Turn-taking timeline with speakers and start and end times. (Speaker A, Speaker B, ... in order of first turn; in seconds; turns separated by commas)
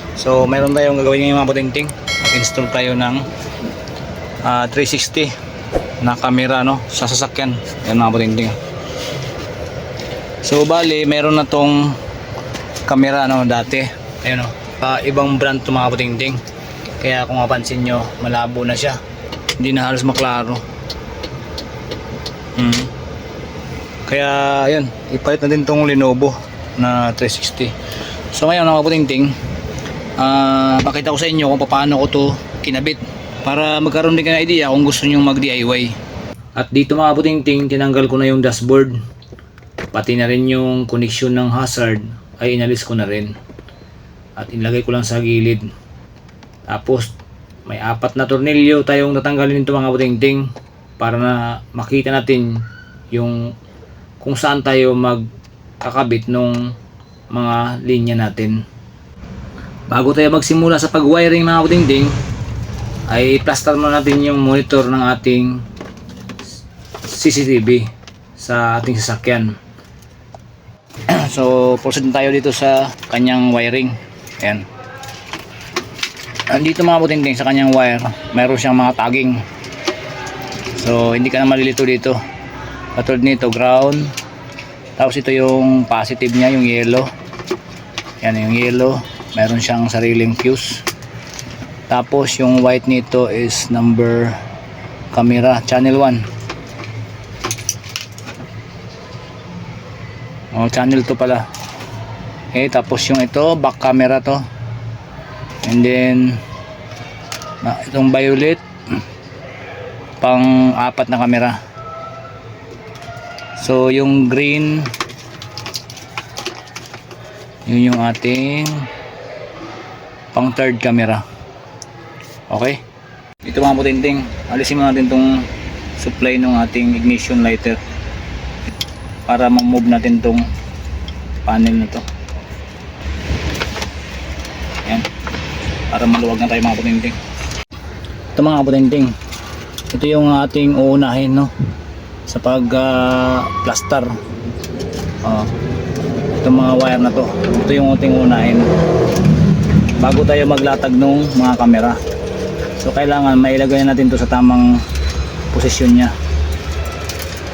Speaker A: 0.1-3.2, Speaker A: 4.4-5.3, Speaker A: 6.0-8.6, Speaker A: 10.4-12.0, Speaker A: 12.8-16.4, Speaker A: 17.0-19.0, Speaker A: 19.6-20.6, Speaker A: 22.6-22.9, Speaker A: 24.1-27.7, Speaker A: 28.3-29.4, Speaker A: 30.2-36.0, Speaker A: 36.5-39.0, Speaker A: 39.9-43.3, Speaker A: 44.4-45.6, Speaker A: 46.7-47.1, Speaker A: 47.6-52.6, Speaker A: 53.1-53.5, Speaker A: 54.2-55.3, Speaker A: 55.8-56.7, Speaker A: 57.3-58.6, Speaker A: 59.9-62.2, Speaker A: 63.1-65.6, Speaker A: 67.0-69.5, Speaker A: 71.1-74.7, Speaker A: 76.5-79.4, Speaker A: 80.8-82.2, Speaker A: 82.9-84.1, Speaker A: 85.0-87.1, Speaker A: 88.2-90.8, Speaker A: 91.9-94.4, Speaker A: 95.1-96.3, Speaker A: 100.5-101.4, Speaker A: 102.5-104.4, Speaker A: 105.6-106.4, Speaker A: 107.6-108.6, Speaker A: 110.2-111.6, Speaker A: 113.6-114.9, Speaker A: 117.7-118.9, Speaker A: 120.3-121.2, Speaker A: 122.5-122.8, Speaker A: 123.4-127.8, Speaker A: 129.3-130.5, Speaker A: 131.4-132.0, Speaker A: 135.9-137.2, Speaker A: 138.3-139.1, Speaker A: 139.9-141.5, Speaker A: 142.3-144.1, Speaker A: 145.2-145.5, Speaker A: 146.4-148.7, Speaker A: 150.0-152.0, Speaker A: 152.8-154.8, Speaker A: 155.5-156.1